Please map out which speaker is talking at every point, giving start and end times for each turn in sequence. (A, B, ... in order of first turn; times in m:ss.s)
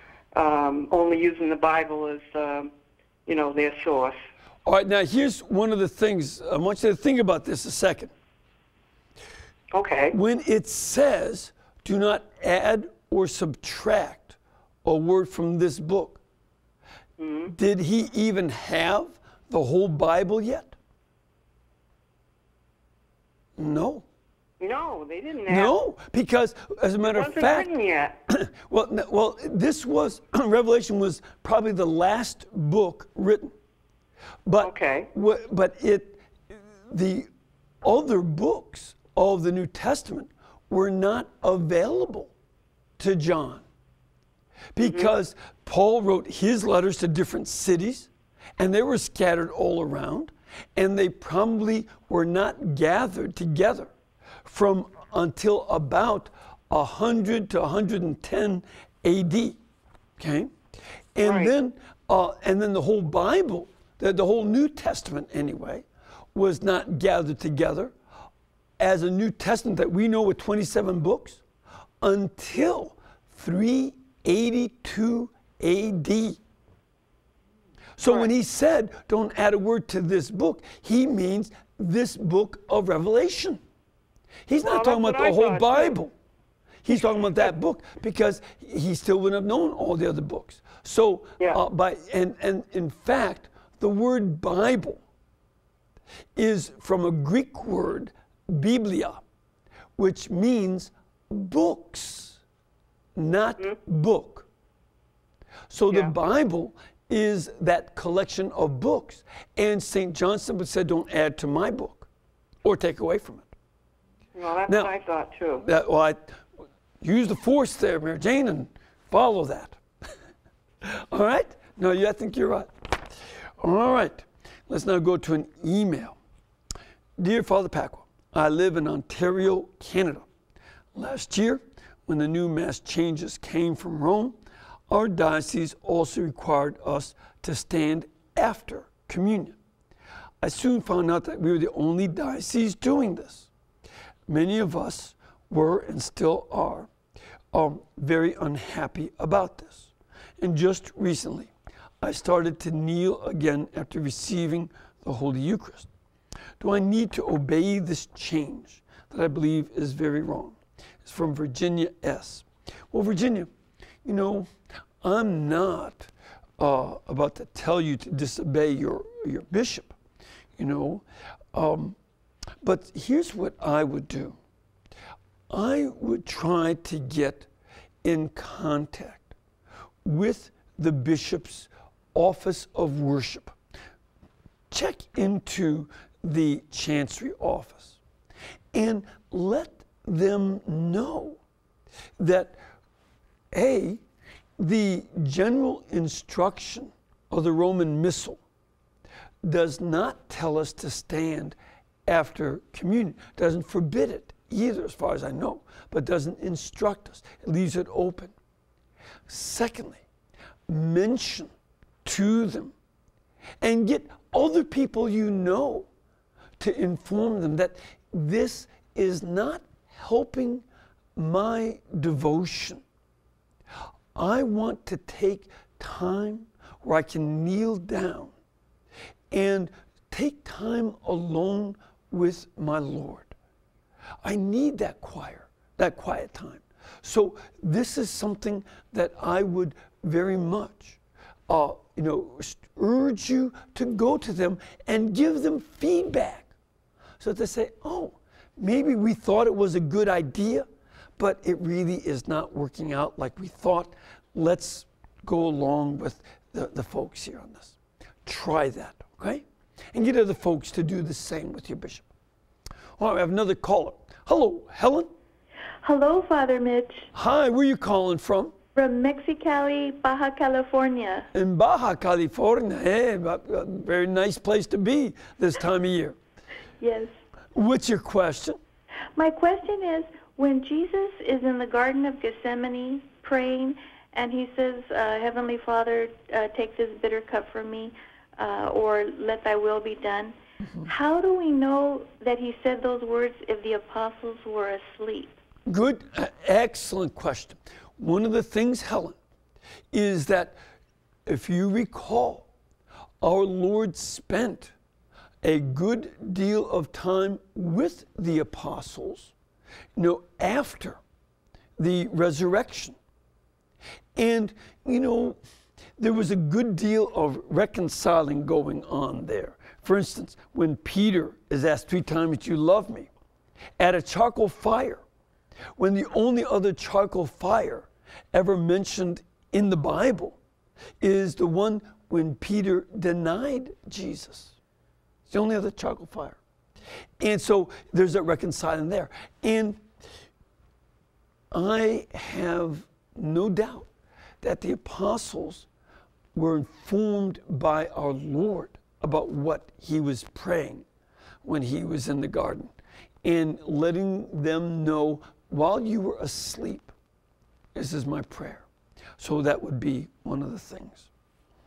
0:00.3-0:02.7 A
0:03.2-0:04.2 A
0:04.6-0:08.1 B
0:09.7-0:10.1 A
0:10.1-0:16.2 B
0:17.2-0:17.5 A
0:17.5-0:20.8 B
0:23.6-0:24.0 B
0:24.6-0:25.8 A
0:25.5-0:27.7 B
0:27.0-0:28.2 A
0:28.3-0:33.5 B
0:34.4-0:37.3 B
0:34.6-0:35.1 A
0:37.8-0:42.3 B
0:43.0-0:43.6 B
0:44.7-0:53.9 B
0:44.8-0:45.1 A
0:54.4-0:59.6 B
1:00.2-1:00.5 B
1:01.1-1:07.9 B
1:01.2-1:01.5 A
1:08.8-1:11.4 B
1:12.0-1:16.4 B
1:18.0-1:23.6 B
1:18.0-1:18.3 A
1:24.5-1:26.1 B
1:24.6-1:26.0 A
1:26.8-1:35.0 B
1:36.4-1:39.2 B
1:40.0-1:42.4 B
1:43.2-1:44.5 B
1:45.7-1:52.1 B
1:52.6-1:53.5 B
1:54.4-1:55.6 A
1:54.7-1:54.9 B
1:55.6-1:56.4 B
1:57.0-1:59.8 B
2:00.8-2:06.2 B
2:07.2-2:10.3 B
2:11.0-2:14.4 B
2:14.9-2:19.6 B
2:20.4-2:23.5 B
2:24.3-2:26.9 B
2:27.5-2:35.9 B
2:36.6-2:43.5 B
2:44.0-2:44.5 B
2:45.0-2:50.0 B
2:50.6-2:52.0 B
2:52.6-2:54.4 B
2:55.5-2:57.5 B
2:58.0-2:59.4 B
3:00.0-3:03.6 B
3:04.7-3:08.0 B
3:08.7-3:11.4 B
3:12.2-3:12.6 B
3:13.5-3:14.0 B
3:14.6-3:18.4 B
3:19.4-3:28.3 B
3:29.3-3:30.0 B
3:30.7-3:31.5 B
3:32.0-3:32.7 B
3:33.6-3:35.9 B
3:36.6-3:40.6 B
3:41.2-3:42.8 B
3:44.1-3:48.3 B
3:49.3-3:53.3 B
3:54.2-4:06.5 B
4:07.2-4:22.1 B
4:23.0-4:25.1 B
4:25.8-4:27.1 C
4:27.1-4:28.5 B
4:28.7-4:31.3 C
4:31.3-4:36.2 B
4:36.8-4:37.1 C
4:37.5-4:38.6 B
4:39.2-4:50.3 C
4:50.8-4:55.3 C
4:55.7-4:59.2 B
4:59.9-5:00.6 B
5:01.2-5:02.5 B
5:03.2-5:04.7 B
5:05.4-5:09.3 B
5:10.0-5:11.0 B
5:11.8-5:13.0 B
5:14.2-5:15.4 B
5:16.0-5:23.1 B
5:23.8-5:25.0 B
5:25.8-5:30.4 B
5:31.0-5:34.6 B
5:35.3-5:36.4 B
5:37.2-5:39.8 B
5:41.5-5:43.9 B
5:44.4-5:45.7 B
5:46.3-5:50.8 B
5:51.4-5:52.7 B
5:53.2-5:56.9 B
5:57.7-5:58.7 B
5:59.2-6:01.1 B